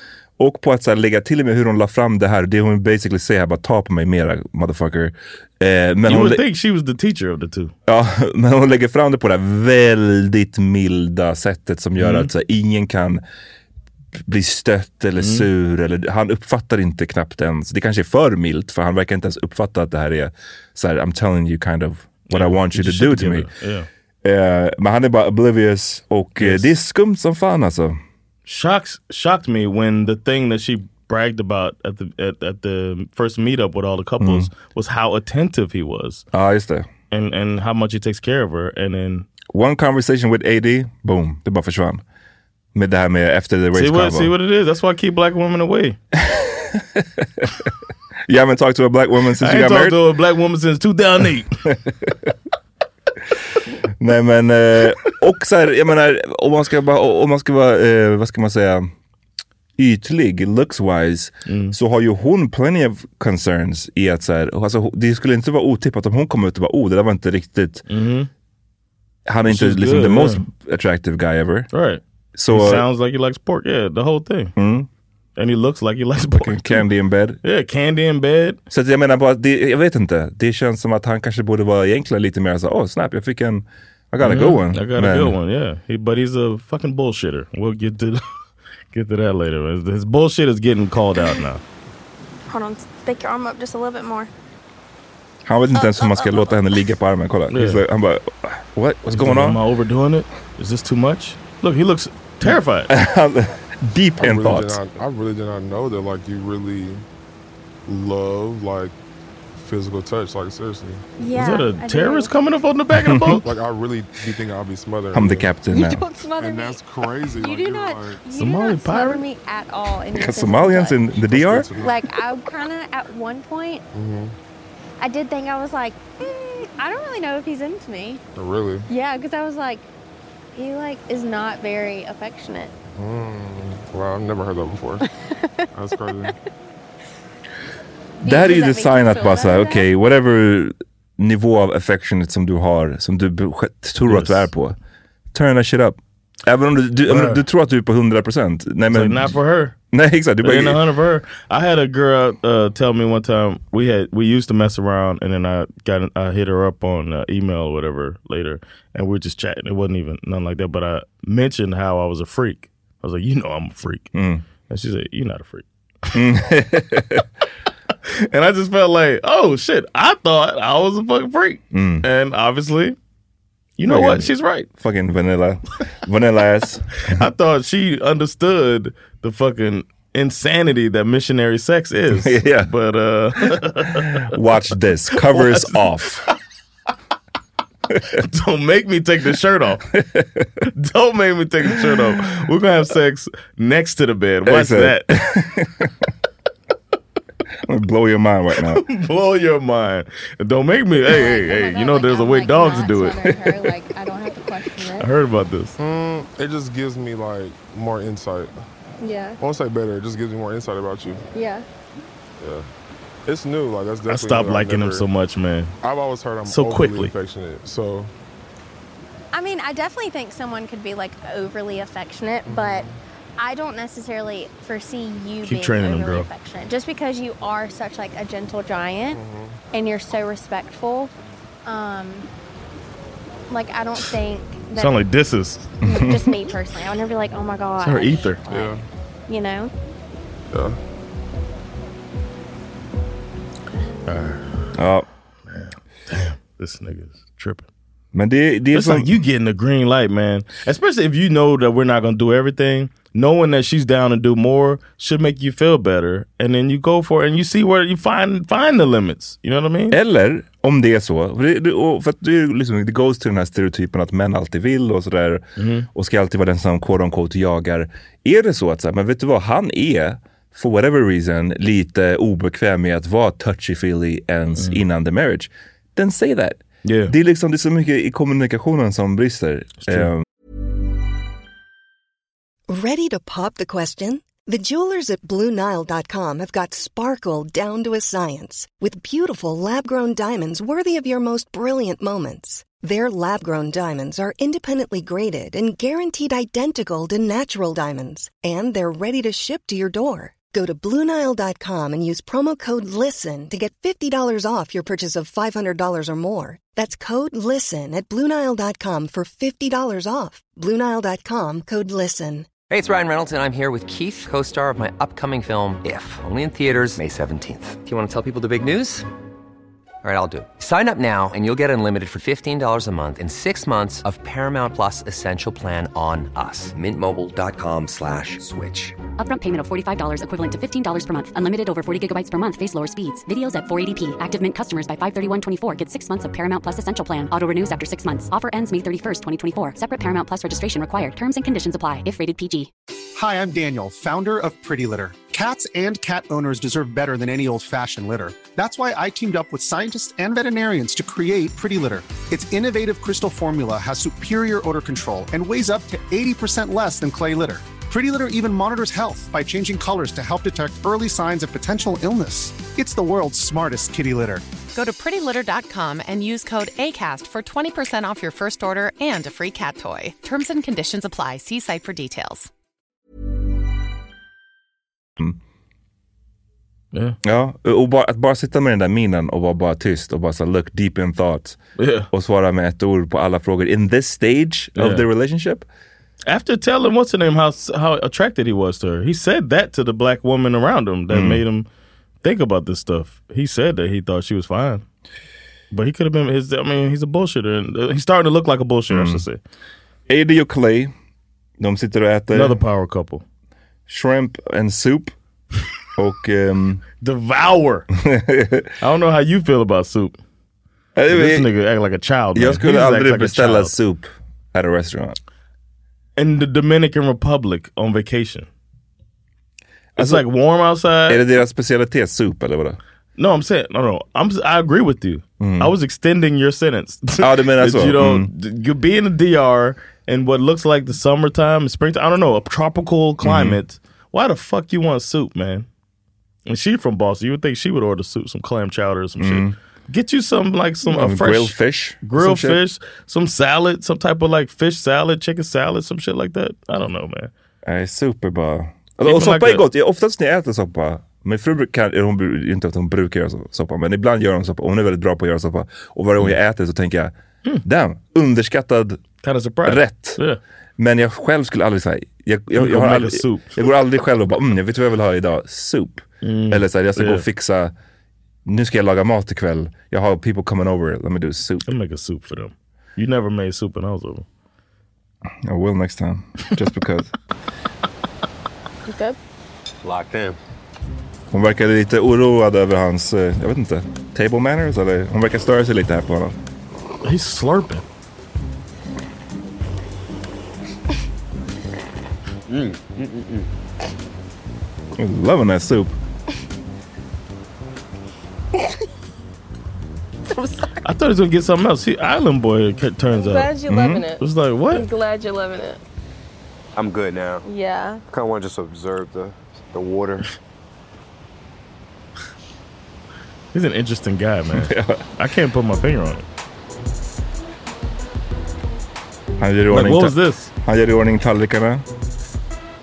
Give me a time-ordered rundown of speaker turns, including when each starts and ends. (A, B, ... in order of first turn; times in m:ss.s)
0:00.4-0:06.4 A
0:06.0-0:07.7 B
0:07.9-0:13.2 A
0:12.0-0:12.3 B
0:14.2-0:23.5 A
0:15.2-0:15.5 B
0:22.3-0:23.9 B
0:24.2-0:28.0 A
0:26.4-0:26.7 B
0:28.4-0:36.2 B
0:34.2-0:34.5 A
0:36.3-0:36.9 A
0:37.1-0:39.3 B
0:39.5-0:42.0 A
0:42.7-0:44.3 A
0:43.7-0:46.0 B
0:46.2-0:47.5 A
0:48.3-0:50.0 A
0:49.4-0:51.6 B
0:51.9-0:52.3 A
0:54.0-0:58.9 A
0:59.8-1:07.8 A
1:01.5-1:01.8 B
1:07.9-1:08.3 B
1:09.3-1:11.7 A
1:09.5-1:10.4 B
1:11.7-1:14.5 B
1:12.4-1:12.8 A
1:14.6-1:14.9 A
1:15.4-1:16.8 B
1:16.4-1:17.4 A
1:17.4-1:18.6 B
1:18.7-1:25.4 A
1:24.2-1:28.2 B
1:28.9-1:31.6 B
1:31.2-1:31.4 C
1:32.5-1:34.3 C
1:35.4-1:39.6 A
1:35.7-1:36.6 C
1:37.5-1:37.8 B
1:39.1-1:42.9 B
1:42.5-1:44.8 A
1:44.2-1:47.0 D
1:47.9-1:48.9 D
1:49.6-1:51.0 D
1:51.2-1:52.3 C
1:51.3-1:53.4 B
1:52.9-1:53.4 A
1:53.4-1:55.5 D
1:55.1-1:56.0 A
1:55.7-1:56.8 C
1:56.3-1:58.2 D
1:57.3-2:01.0 C
1:58.3-1:59.2 B
2:00.1-2:01.7 A
2:01.2-2:02.0 D
2:01.8-2:03.8 C
2:03.9-2:04.3 D
2:05.0-2:08.2 C
2:08.4-2:08.9 D
2:08.9-2:09.8 C
2:10.5-2:12.7 C
2:13.0-2:15.0 D
2:15.7-2:16.3 D
2:18.2-2:24.8 A
2:18.2-2:19.9 C
2:24.1-2:24.5 B
2:25.3-2:29.4 A
2:27.1-2:27.4 B
2:28.9-2:29.7 B
2:29.9-2:30.8 A
2:30.4-2:44.1 B
2:44.1-2:44.4 A
2:44.7-2:46.2 B
2:46.1-2:47.2 A
2:48.1-2:53.0 B
2:51.7-2:52.0 A
2:53.8-2:54.7 B
2:53.8-2:57.3 A
2:57.1-3:04.4 B
3:02.1-3:02.7 A
3:03.9-3:06.3 A
3:05.1-3:06.3 B
3:08.1-3:09.9 B
3:10.0-3:10.6 A
3:10.7-3:15.3 B
3:11.7-3:12.4 A
3:14.4-3:15.9 A
3:17.6-3:18.8 A
3:18.6-3:23.8 B
3:21.1-3:25.0 C
3:24.8-3:25.8 B
3:25.8-3:28.5 D
3:29.0-3:29.4 E
3:29.4-3:31.2 D
3:31.4-3:31.6 E
3:32.4-3:32.6 D
3:33.2-3:35.0 D
3:34.1-3:35.8 B
3:35.8-3:38.1 D
3:36.4-3:37.1 B
3:39.3-3:42.8 C
3:42.4-3:43.0 D
3:43.4-3:49.2 C
3:45.4-3:46.3 B
3:49.1-3:49.6 D
3:49.7-3:51.1 C
3:51.6-3:52.2 C
3:53.5-3:54.9 C
3:54.7-3:55.7 B
3:55.8-3:56.3 A
3:55.8-3:59.7 C
3:57.8-3:58.4 B
3:58.5-3:58.8 D
4:00.5-4:00.8 D
4:04.1-4:04.5 B
4:04.7-4:05.0 A
4:05.5-4:07.7 B
4:08.1-4:09.2 A
4:08.7-4:20.0 B
4:19.9-4:40.2 A
4:25.6-4:25.9 B
4:34.6-4:34.8 B
4:36.8-4:37.1 B
4:39.8-4:40.1 B
4:42.7-5:12.5 F
5:12.7-5:19.0 G
5:20.0-5:29.0 G
5:29.2-5:42.7 H
5:43.1-6:04.4 I
6:04.7-6:12.5 J
6:17.2-6:21.6 A
6:21.8-6:22.1 B
6:22.1-6:25.6 A
6:24.8-6:25.0 B
6:26.3-6:31.6 B
6:31.1-6:31.4 A
6:32.2-6:34.8 B
6:35.7-6:39.4 B
6:38.9-6:39.2 A
6:40.1-6:40.9 A
6:41.6-6:42.6 A
6:42.3-6:43.2 B
6:43.9-6:45.1 A
6:46.0-6:46.8 A
6:47.0-6:47.9 B
6:48.0-6:48.7 A
6:48.8-6:50.2 B
6:51.0-6:51.5 A
6:51.1-6:53.7 B
6:52.3-6:55.2 A
6:56.2-6:58.5 B
7:00.0-7:00.2 A
7:00.0-7:01.2 B
7:01.1-7:02.8 A
7:03.2-7:15.7 B
7:05.4-7:05.7 A
7:07.2-7:08.3 A
7:13.2-7:13.6 A
7:16.5-7:27.3 B
7:19.2-7:19.5 A
7:20.8-7:22.6 A
7:27.6-7:39.0 A
7:29.0-7:29.6 B
7:39.2-7:40.4 B
7:39.6-7:40.2 A
7:40.8-7:47.7 A
7:42.6-7:43.6 B
7:46.2-7:47.2 B
7:48.4-7:51.7 A
7:51.6-7:54.2 B
7:55.4-7:57.1 A
7:58.8-7:59.2 E
7:59.8-8:00.4 K
8:01.3-8:06.4 A
8:07.0-8:07.8 B
8:12.5-8:13.5 K
8:15.0-8:15.9 A
8:20.8-8:23.5 B
8:23.1-8:25.8 E
8:23.7-8:24.0 A
8:24.2-8:24.9 B
8:26.8-8:27.4 K
8:27.4-8:28.0 E
8:28.1-8:30.3 K
8:33.5-8:36.2 B
8:34.5-8:35.0 A
8:39.4-8:41.8 A
8:39.7-8:40.5 B